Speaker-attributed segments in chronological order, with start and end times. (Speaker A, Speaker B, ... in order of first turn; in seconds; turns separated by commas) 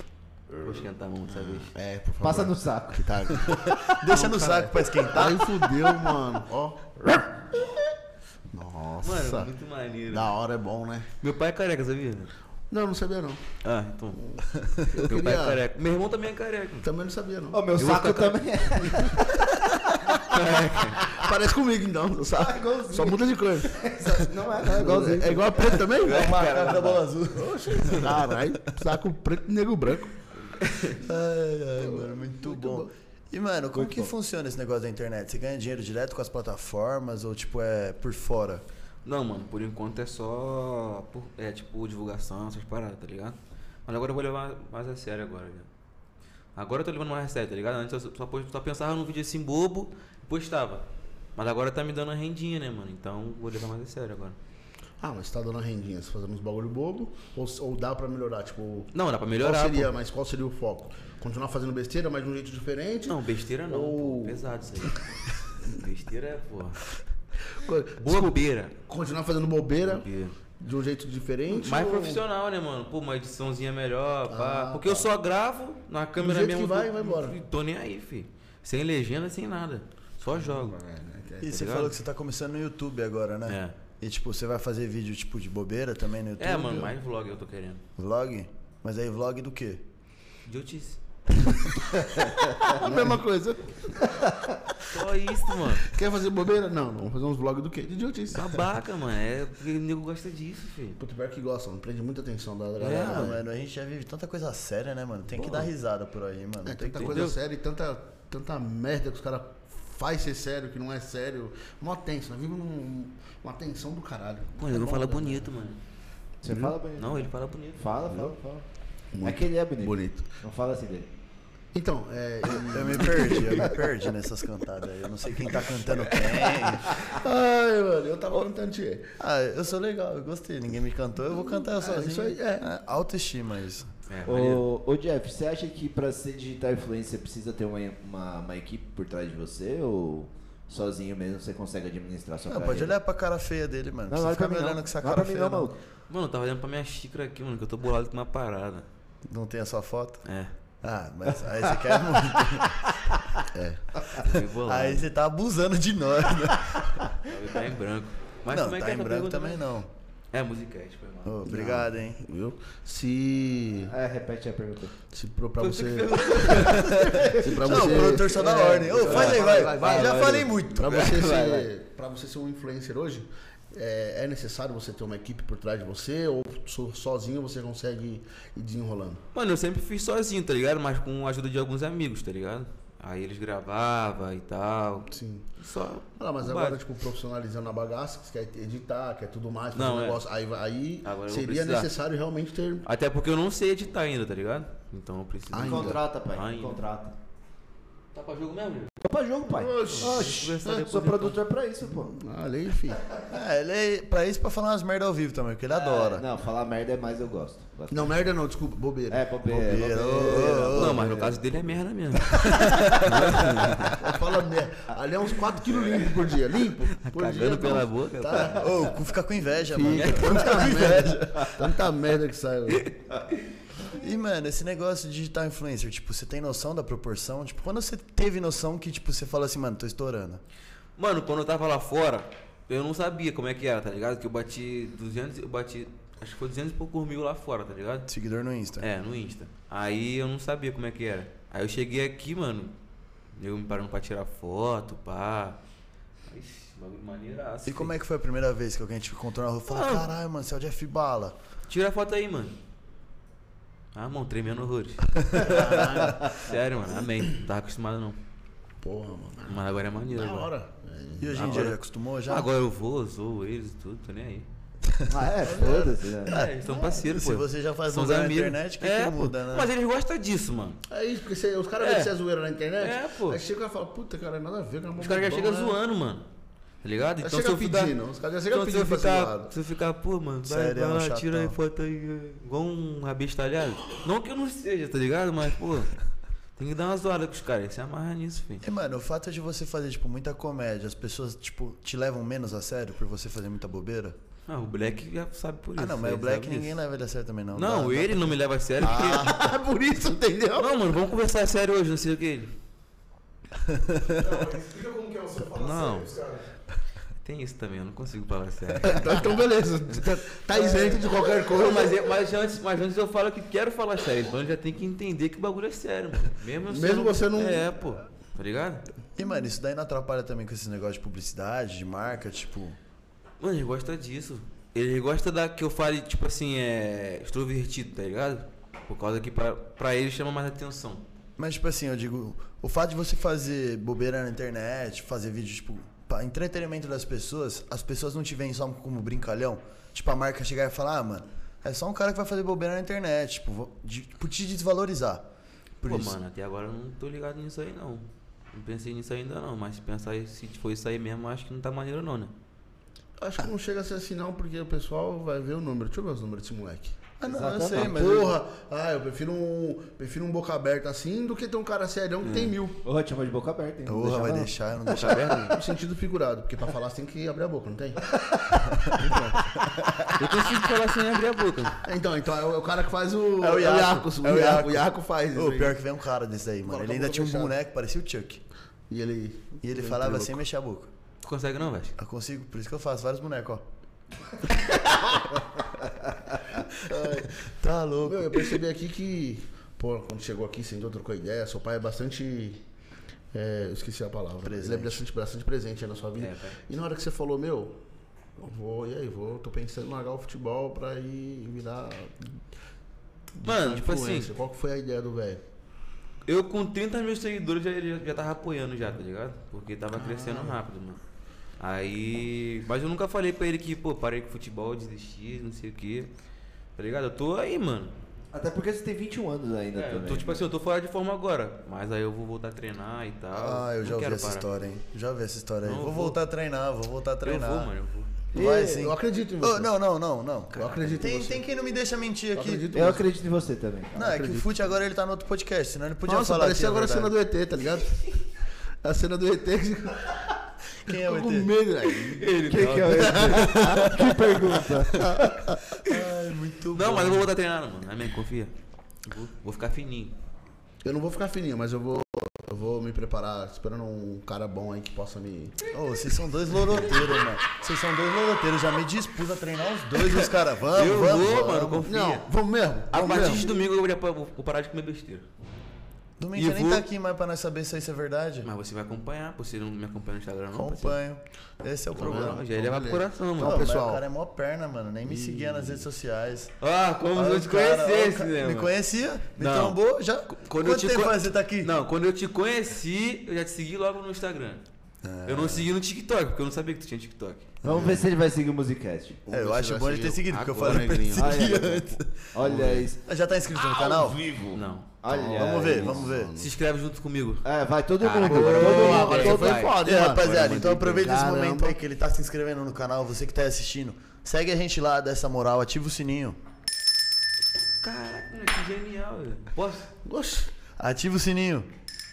Speaker A: 0.6-1.7, Speaker B: 1.4-7.2, Speaker C: 2.2-3.1, Speaker D: 3.3-5.7, Speaker B: 8.5-9.5, Speaker A: 9.0-10.3, Speaker B: 10.1-11.1, Speaker A: 11.2-12.3, Speaker B: 12.7-13.4, Speaker A: 13.6-14.2, Speaker B: 14.1-15.6, Speaker D: 14.6-14.9, Speaker A: 15.0-16.9, Speaker B: 16.8-17.6, Speaker C: 17.5-19.3, Speaker A: 17.8-19.1, Speaker A: 20.2-21.1, Speaker B: 21.1-23.9, Speaker C: 22.3-25.8, Speaker B: 24.5-26.3, Speaker A: 25.6-27.1, Speaker D: 26.0-28.2, Speaker B: 27.3-30.2, Speaker A: 30.5-31.0, Speaker D: 31.0-38.6, Speaker B: 31.8-32.9, Speaker C: 33.7-34.1, Speaker A: 39.0-43.4, Speaker A: 43.9-45.7, Speaker A: 46.5-50.8, Speaker A: 51.4-54.4, Speaker B: 55.0-64.4, Speaker A: 58.9-59.9, Speaker A: 63.0-65.0, Speaker A: 65.6-66.8, Speaker B: 67.5-70.1, Speaker A: 68.0-68.7, Speaker A: 69.8-70.3, Speaker B: 70.6-72.2, Speaker A: 71.5-80.8, Speaker B: 74.3-75.1, Speaker B: 76.2-77.4, Speaker B: 80.3-81.5, Speaker D: 81.4-86.9, Speaker A: 81.4-81.9, Speaker A: 83.5-83.7, Speaker A: 86.4-87.8, Speaker D: 88.0-89.8, Speaker A: 90.5-91.0, Speaker B: 92.6-94.3, Speaker A: 94.8-96.0, Speaker B: 95.9-98.5, Speaker A: 98.3-101.0, Speaker B: 101.0-103.4, Speaker A: 102.8-103.3, Speaker D: 102.8-107.3, Speaker B: 106.6-115.5, Speaker A: 107.0-107.4, Speaker A: 114.6-115.8, Speaker C: 116.4-118.6, Speaker A: 117.0-117.8, Speaker B: 119.1-120.3, Speaker C: 119.2-121.1, Speaker B: 121.7-123.8, Speaker D: 122.5-127.0, Speaker B: 127.0-129.1, Speaker D: 129.2-133.9, Speaker B: 131.7-132.7, Speaker A: 134.1-134.6, Speaker C: 134.2-142.9, Speaker D: 142.5-145.7, Speaker C: 144.1-145.8, Speaker A: 146.1-148.8, Speaker D: 149.3-150.2, Speaker A: 150.2-150.5, Speaker D: 150.8-152.9, Speaker B: 153.5-154.0, Speaker A: 154.2-155.0, Speaker D: 154.2-157.1, Speaker A: 157.2-159.6, Speaker D: 158.5-159.9, Speaker A: 160.3-161.4, Speaker D: 161.2-162.2, Speaker B: 161.4-163.9, Speaker C: 163.9-164.9, Speaker B: 165.1-179.2, Speaker A: 165.6-168.0, Speaker D: 166.5-171.1, Speaker A: 168.9-171.7, Speaker A: 179.3-186.8, Speaker B: 185.1-185.5, Speaker B: 186.2-192.8, Speaker A: 189.7-190.2, Speaker A: 191.0-191.9, Speaker A: 192.8-196.8, Speaker B: 195.5-196.0, Speaker C: 195.6-197.1, Speaker A: 198.1-198.9, Speaker C: 199.0-202.1, Speaker B: 199.5-200.8, Speaker A: 199.7-201.4, Speaker B: 201.8-203.0, Speaker D: 203.3-206.2, Speaker C: 205.7-208.2, Speaker B: 207.9-211.2, Speaker C: 209.1-211.3, Speaker D: 209.5-211.2, Speaker A: 210.7-214.0, Speaker D: 212.4-213.7, Speaker B: 213.9-218.9, Speaker A: 217.0-218.8, Speaker D: 218.5-221.6, Speaker B: 219.7-222.9, Speaker A: 219.9-221.0, Speaker A: 222.7-222.9, Speaker D: 223.9-230.4, Speaker A: 231.0-238.1, Speaker D: 238.1-238.9, Speaker A: 238.8-242.7, Speaker A: 243.3-245.6, Speaker A: 246.3-247.9, Speaker D: 247.6-251.3, Speaker A: 249.7-250.1, Speaker A: 251.7-252.6, Speaker A: 253.9-258.2, Speaker B: 255.4-256.4, Speaker B: 258.8-261.6, Speaker A: 259.4-260.5, Speaker D: 261.2-262.5, Speaker A: 261.3-264.5, Speaker C: 265.1-266.3, Speaker B: 265.4-265.9, Speaker D: 266.2-269.7, Speaker A: 266.2-270.8, Speaker B: 270.9-275.8, Speaker A: 271.8-272.1, Speaker A: 272.8-273.4, Speaker A: 275.0-276.2, Speaker A: 276.8-277.9, Speaker B: 277.2-279.5, Speaker A: 278.5-285.9, Speaker D: 280.4-281.6, Speaker A: 286.6-288.6, Speaker D: 288.6-294.2, Speaker A: 294.5-296.8, Speaker D: 295.8-299.5, Speaker A: 297.5-299.4, Speaker B: 298.8-300.9, Speaker A: 300.6-302.5, Speaker D: 303.6-304.4, Speaker E: 304.1-306.4, Speaker A: 305.6-306.1, Speaker A: 307.2-309.4, Speaker B: 308.8-312.1, Speaker A: 310.5-318.9, Speaker B: 316.7-317.7, Speaker D: 319.2-322.8, Speaker A: 323.4-331.0, Speaker D: 331.4-345.2, Speaker D: 345.8-346.1, Speaker A: 345.8-352.3, Speaker B: 353.2-357.0, Speaker D: 357.2-358.4, Speaker C: 357.2-358.1, Speaker B: 357.7-362.8, Speaker A: 362.2-362.6, Speaker C: 362.8-364.5, Speaker D: 363.9-365.6, Speaker A: 364.9-365.6, Speaker B: 365.5-368.1, Speaker C: 368.2-369.4, Speaker D: 368.6-369.0, Speaker D: 369.6-370.3, Speaker A: 370.1-371.8, Speaker B: 371.8-375.8, Speaker D: 373.4-378.4, Speaker B: 376.6-377.5, Speaker B: 378.9-380.4, Speaker D: 379.6-380.9, Speaker A: 381.2-381.9, Speaker D: 382.0-383.6, Speaker D: 384.6-385.1, Speaker D: 386.6-388.6, Speaker B: 386.9-387.4, Speaker B: 388.0-392.6, Speaker B: 393.3-397.8, Speaker D: 394.4-395.0, Speaker A: 396.2-396.6, Speaker B: 398.4-402.3, Speaker B: 403.4-405.4, Speaker A: 403.4-404.3, Speaker A: 406.2-411.0, Speaker B: 409.9-410.6, Speaker A: 411.6-416.1, Speaker A: 416.8-417.9, Speaker C: 418.3-420.4, Speaker A: 419.7-424.6, Speaker D: 423.3-427.7, Speaker A: 425.6-426.2, Speaker A: 427.2-428.1, Speaker C: 428.3-428.9, Speaker D: 428.3-432.9, Speaker B: 428.4-429.7, Speaker B: 430.5-431.4, Speaker B: 432.3-433.0, Speaker C: 432.7-434.1, Speaker D: 433.9-437.1, Speaker B: 434.0-434.7, Speaker B: 436.1-438.1, Speaker B: 438.8-440.3, Speaker D: 440.8-441.5, Speaker B: 440.9-443.4, Speaker A: 442.1-443.8, Speaker C: 442.4-445.1, Speaker D: 443.6-443.9, Speaker D: 445.7-447.3, Speaker A: 446.7-448.5, Speaker A: 449.1-450.1, Speaker B: 450.8-455.5, Speaker D: 455.7-461.9, Speaker A: 456.6-457.0, Speaker A: 460.0-462.3, Speaker B: 461.9-463.5, Speaker A: 462.9-465.2, Speaker D: 462.9-463.5, Speaker D: 466.2-468.5, Speaker A: 466.3-466.8, Speaker A: 468.4-471.0, Speaker D: 470.5-472.4, Speaker A: 471.9-473.7, Speaker B: 471.9-474.0, Speaker D: 473.4-476.5, Speaker B: 475.0-475.8, Speaker A: 476.6-478.7, Speaker D: 477.1-481.7, Speaker A: 479.4-484.6, Speaker D: 485.0-485.7, Speaker A: 485.2-487.5, Speaker C: 487.6-489.2, Speaker D: 487.6-488.0, Speaker B: 489.3-491.8, Speaker D: 489.3-494.2, Speaker A: 490.3-491.0, Speaker C: 491.1-491.8, Speaker C: 492.3-493.0, Speaker B: 492.4-492.9, Speaker C: 493.5-496.1, Speaker A: 494.5-494.9, Speaker B: 495.1-496.5, Speaker D: 495.3-496.3, Speaker A: 496.4-497.4, Speaker C: 497.4-499.6, Speaker A: 498.0-501.1, Speaker B: 498.2-501.7, Speaker D: 499.8-506.4, Speaker A: 507.8-509.9, Speaker B: 510.0-510.5, Speaker D: 510.8-511.7